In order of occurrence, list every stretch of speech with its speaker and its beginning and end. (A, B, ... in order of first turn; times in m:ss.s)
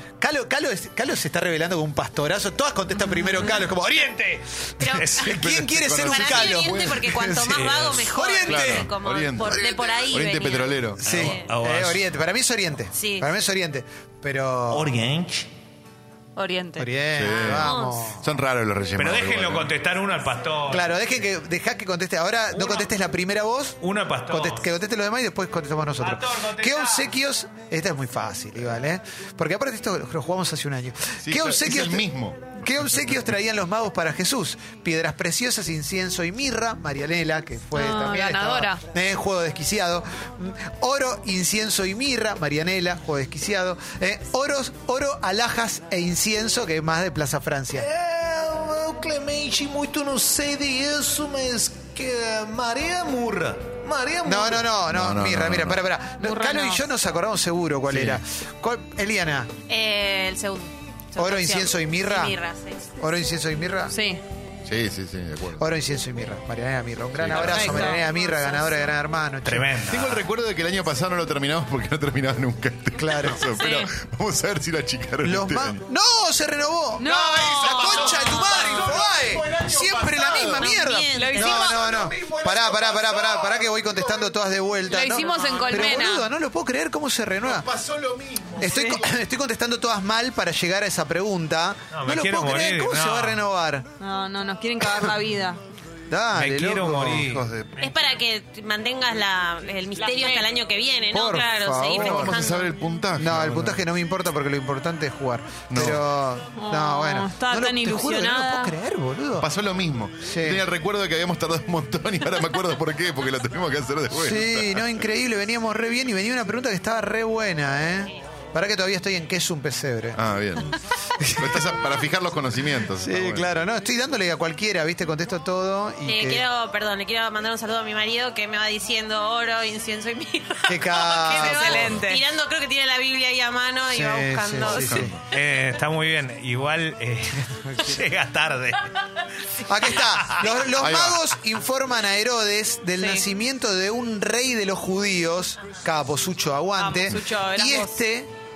0:00.2-0:08.9 A
0:04.8-0:05.3 B
0:05.0-0:05.3 C
0:05.3-0:07.1 D
0:06.0-0:11.5 B
0:07.6-0:08.0 C
0:08.5-0:11.3 D
0:11.0-0:14.9 A
0:11.4-0:12.0 C
0:12.9-0:13.3 B
0:14.7-0:15.5 C
0:16.4-0:16.9 E
0:16.8-0:18.2 A
0:17.1-0:19.7 D
0:17.3-0:18.1 B
0:19.0-0:20.9 C
0:20.7-0:47.9 A
0:22.5-0:22.9 C
0:23.8-0:24.7 C
0:26.0-0:27.1 C
0:31.2-0:32.6 D
0:37.7-0:38.8 E
0:47.8-0:54.7 C
0:54.2-0:59.5 A
0:54.9-0:55.8 D
0:56.2-0:56.8 E
0:57.9-0:58.2 D
0:59.7-1:02.9 B
1:01.2-1:02.4 A
1:03.0-1:03.9 A
1:03.9-1:04.2 E
1:04.6-1:05.6 D
1:05.6-1:09.8 A
1:07.1-1:08.0 D
1:07.4-1:08.1 E
1:08.0-1:08.9 B
1:09.4-1:10.2 C
1:09.9-1:15.8 D
1:13.0-1:13.5 A
1:13.6-1:13.9 E
1:15.2-1:27.7 A
1:17.0-1:17.6 E
1:17.1-1:20.8 D
1:17.6-1:18.3 C
1:20.4-1:21.7 B
1:21.1-1:21.9 E
1:21.4-1:24.3 D
1:24.9-1:26.3 E
1:25.3-1:25.8 C
1:27.4-1:29.2 D
1:28.6-1:33.9 A
1:31.9-1:33.4 C
1:34.0-1:35.6 E
1:34.8-1:35.1 A
1:36.1-1:37.5 A
1:36.3-1:37.4 C
1:37.3-1:37.8 D
1:37.8-1:42.7 B
1:40.0-1:40.5 E
1:41.1-1:42.4 A
1:41.9-1:43.8 D
1:43.1-1:49.5 A
1:45.7-1:46.0 D
1:46.5-1:48.8 E
1:49.4-1:54.9 D
1:50.2-1:50.6 A
1:54.1-2:00.2 A
2:00.1-2:00.8 D
2:01.2-2:01.6 A
2:01.4-2:03.5 D
2:03.0-2:06.4 A
2:06.0-2:15.1 B
2:10.7-2:12.0 A
2:11.3-2:12.2 E
2:13.9-2:15.2 A
2:14.6-2:15.2 D
2:15.3-2:18.8 C
2:19.6-2:28.3 A
2:19.9-2:20.5 C
2:20.8-2:21.2 D
2:23.0-2:23.3 E
2:26.8-2:28.0 E